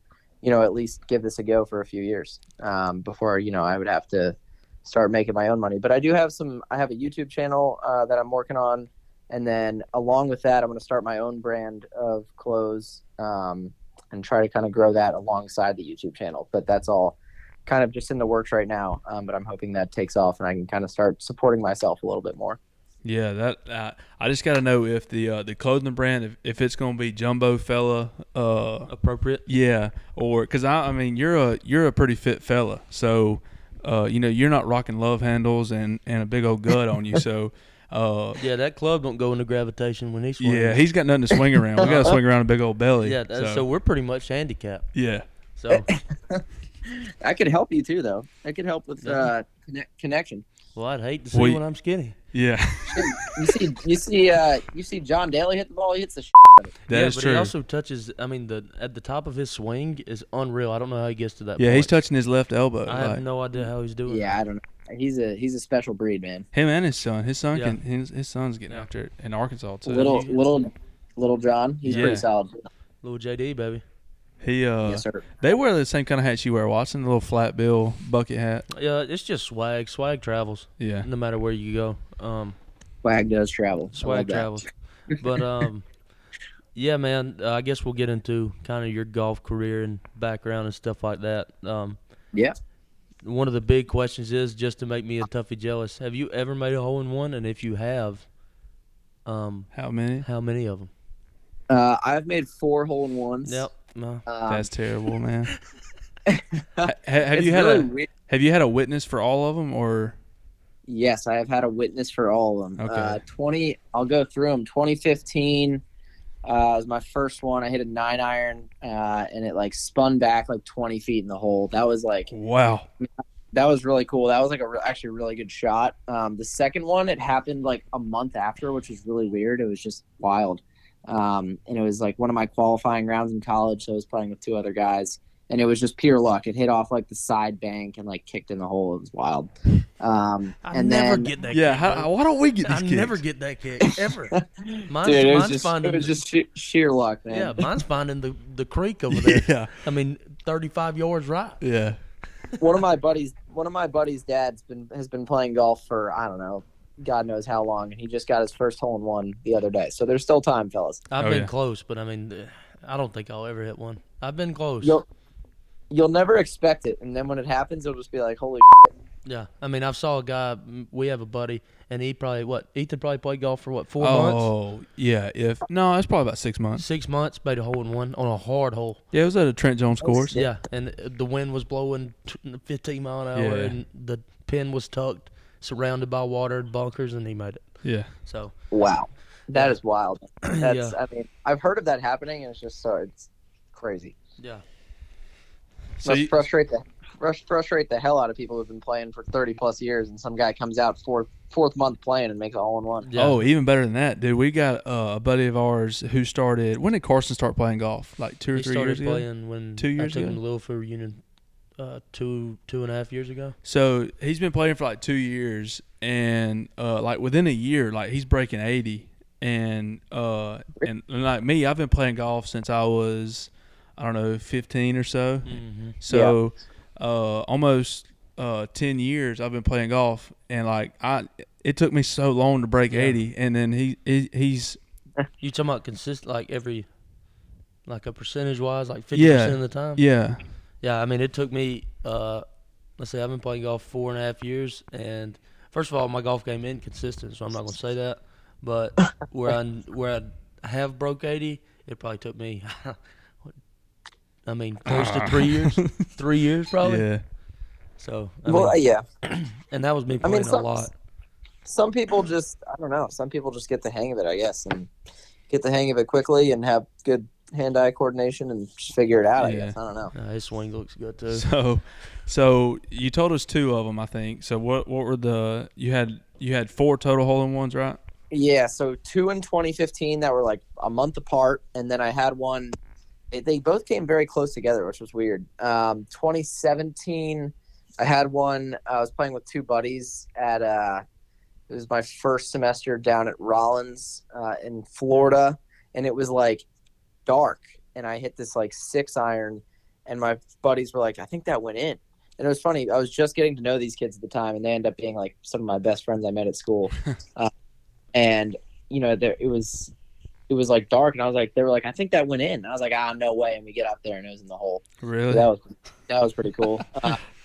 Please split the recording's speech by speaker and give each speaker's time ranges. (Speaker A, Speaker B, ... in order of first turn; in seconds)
Speaker A: 0.4-22.6, 45.7-50.5, 52.9-56.8, 64.1-66.4, 69.8-72.6, 74.9-75.2, 83.0-84.6, 101.7-103.7, 104.3-104.7, 106.3-108.1, 110.9-115.8, 116.4-122.3, 123.0-141.3, 144.3-147.6, 152.6-161.0, 165.9-168.9, 180.0-180.4, 188.7-194.2, 196.0-203.1, 226.1-226.3, 258.5-259.0, 260.2-260.9, 261.6-264.9, 265.5-270.1, 278.3-282.8, 283.3-291.0, 291.7-296.6, 297.2-307.5, 308.1-309.9, 310.5-317.2
Speaker B: 23.0-28.9, 29.4-38.4, 40.4-43.6, 44.9-45.2, 51.3-51.6, 52.3-53.5, 56.9-57.5, 61.6-63.2, 66.5-70.2, 71.8-72.2, 74.4-78.6, 80.8-81.1, 99.7-100.2, 104.5-105.5, 106.8-110.2, 112.8-113.2, 122.3-122.9, 141.5-143.2, 149.1-149.7, 151.6-152.0, 161.2-161.5, 174.0-176.8, 179.1-180.4, 183.3-183.8, 187.8-188.1, 196.0-196.4, 203.1-210.4, 213.6-234.8, 239.1-240.4, 254.8-256.1, 256.8-257.2, 269.4-269.7, 271.3-278.0, 315.0-315.5
Speaker C: 28.9-29.4, 38.4-40.9, 43.0-44.9, 45.5-45.9, 49.0-49.3, 50.7-52.1, 56.9-62.0, 62.9-64.4, 70.0-70.4, 73.0-73.8, 78.7-82.6, 83.9-85.9, 86.7-92.0, 93.2-98.2, 99.2-99.7, 100.2-100.9, 103.4-104.2, 140.6-142.1, 142.6-144.3, 144.9-146.2, 147.3-151.6, 161.1-165.0, 169.2-174.5, 176.8-179.0, 180.3-188.5, 190.4-191.0, 194.4-194.6, 203.0-203.4, 208.5-211.2, 211.8-213.5, 225.4-226.0, 232.9-233.2, 235.4-236.9, 237.8-240.0, 240.8-242.4, 243.0-253.5, 254.4-257.1, 258.0-260.9, 270.1-271.4